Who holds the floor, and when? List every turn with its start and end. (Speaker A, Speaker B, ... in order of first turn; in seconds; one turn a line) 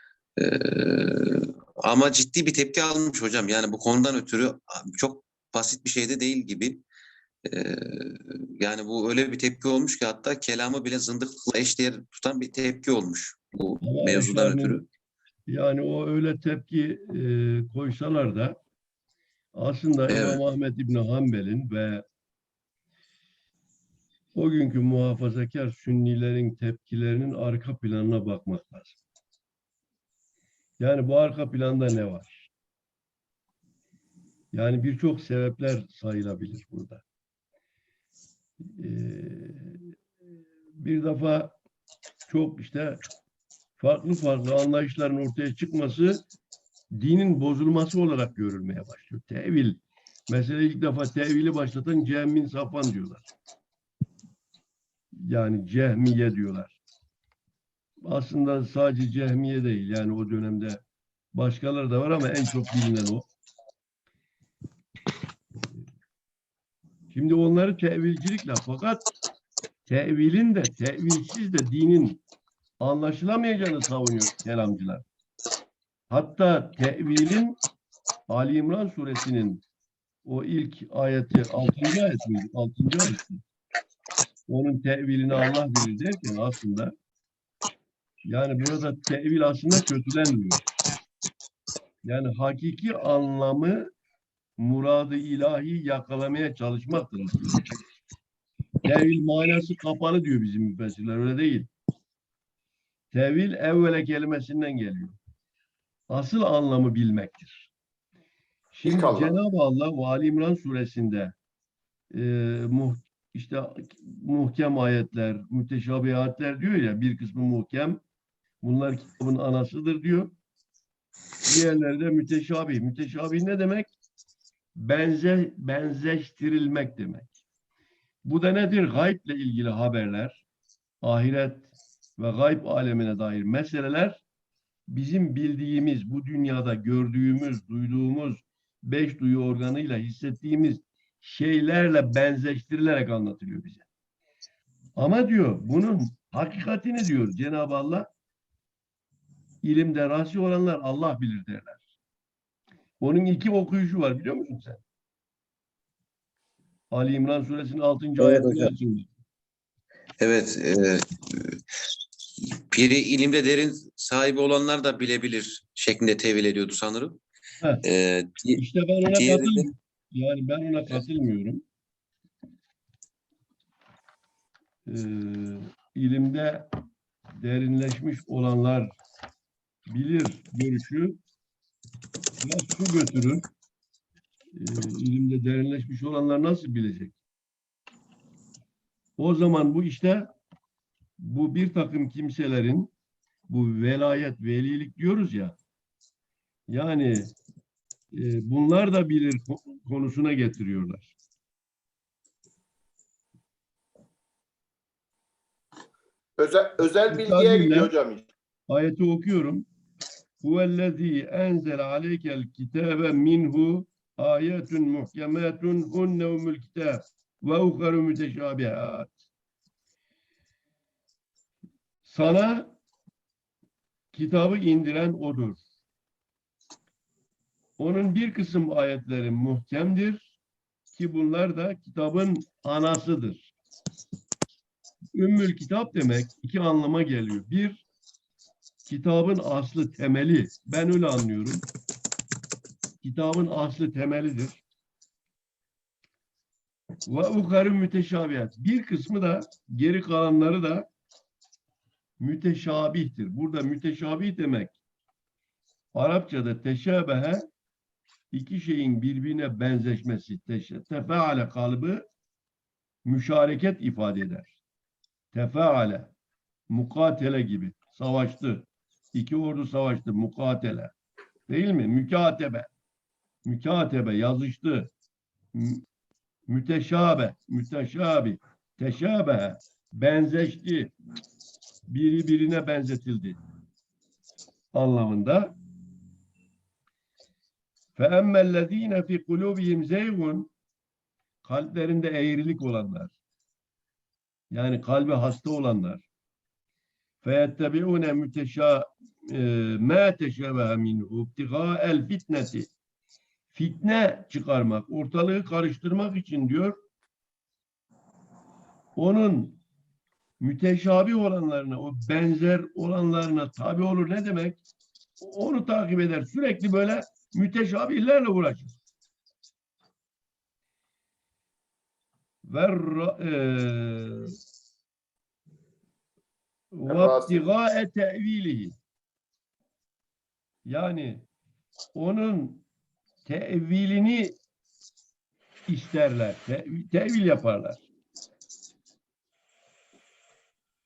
Speaker A: 0.4-6.8
Speaker A: 7.4-14.8
Speaker B: 13.8-14.9
Speaker B: 15.5-18.6
Speaker B: 19.6-22.0
Speaker A: 20.1-20.4
Speaker B: 24.4-29.0
Speaker B: 30.8-32.5
Speaker B: 34.5-37.0
Speaker B: 38.6-39.9
Speaker B: 40.8-41.5
Speaker B: 42.3-43.0
Speaker B: 43.8-46.2
Speaker B: 46.9-53.3
Speaker B: 55.2-56.8
Speaker B: 58.0-60.8
Speaker B: 61.3-63.3
Speaker B: 67.1-69.0
Speaker B: 69.9-72.2
Speaker B: 72.8-75.0
Speaker B: 76.1-77.6
Speaker B: 78.3-79.6
Speaker B: 80.2-83.4
Speaker B: 84.5-86.9
Speaker B: 88.2-90.6
Speaker B: 92.0-93.9
Speaker B: 94.6-97.7
Speaker B: 98.8-101.7
Speaker B: 103.1-105.2
Speaker B: 106.1-107.7
Speaker B: 108.7-111.3
Speaker C: 108.8-109.3
Speaker B: 112.1-118.0
Speaker B: 118.6-120.3
Speaker B: 121.5-123.9
Speaker B: 124.8-127.3
Speaker B: 128.2-130.4
Speaker B: 131.0-134.2
Speaker B: 134.9-143.9
Speaker B: 145.0-148.1
Speaker B: 149.6-151.8
Speaker B: 153.0-154.8
Speaker B: 156.9-159.1
Speaker A: 158.2-158.7
Speaker A: 160.2-161.6
Speaker A: 162.7-167.2
Speaker A: 167.8-168.6
Speaker B: 168.6-171.6
Speaker A: 169.1-169.7
Speaker B: 174.9-176.7
Speaker B: 177.4-179.0
Speaker B: 179.9-181.2
Speaker B: 182.4-183.4
Speaker B: 184.6-187.2
Speaker B: 189.2-190.3
Speaker B: 191.2-192.9
Speaker B: 193.5-195.6
Speaker B: 196.7-197.3
Speaker B: 198.1-201.1
Speaker C: 206.4-208.3
Speaker B: 207.1-207.9
Speaker B: 208.7-209.7
Speaker B: 210.4-219.1
Speaker B: 222.0-222.8
Speaker B: 224.1-225.6
Speaker B: 227.8-230.3
Speaker B: 230.9-233.5
Speaker B: 235.2-237.8
Speaker B: 238.9-241.7
Speaker B: 243.0-244.6
Speaker B: 247.1-250.9
Speaker B: 252.2-254.8
Speaker B: 255.9-257.5
Speaker B: 258.3-262.1
Speaker B: 263.1-264.6
Speaker B: 265.3-266.1
Speaker B: 266.7-270.9
Speaker B: 271.5-272.7
Speaker B: 273.4-274.9
Speaker B: 275.5-275.8
Speaker B: 276.5-280.9
Speaker B: 281.9-283.4
Speaker B: 284.7-285.5
Speaker B: 288.0-290.5
Speaker B: 291.4-293.1
Speaker B: 294.5-296.1
Speaker B: 297.2-302.7
Speaker B: 303.5-306.8
Speaker B: 309.0-309.6
Speaker B: 310.4-314.6
Speaker B: 315.2-318.8
Speaker B: 322.4-324.4
Speaker B: 326.7-328.8
Speaker C: 326.9-327.4
Speaker B: 330.7-331.3
Speaker B: 331.9-332.6
Speaker B: 333.2-334.4
Speaker B: 335.7-337.9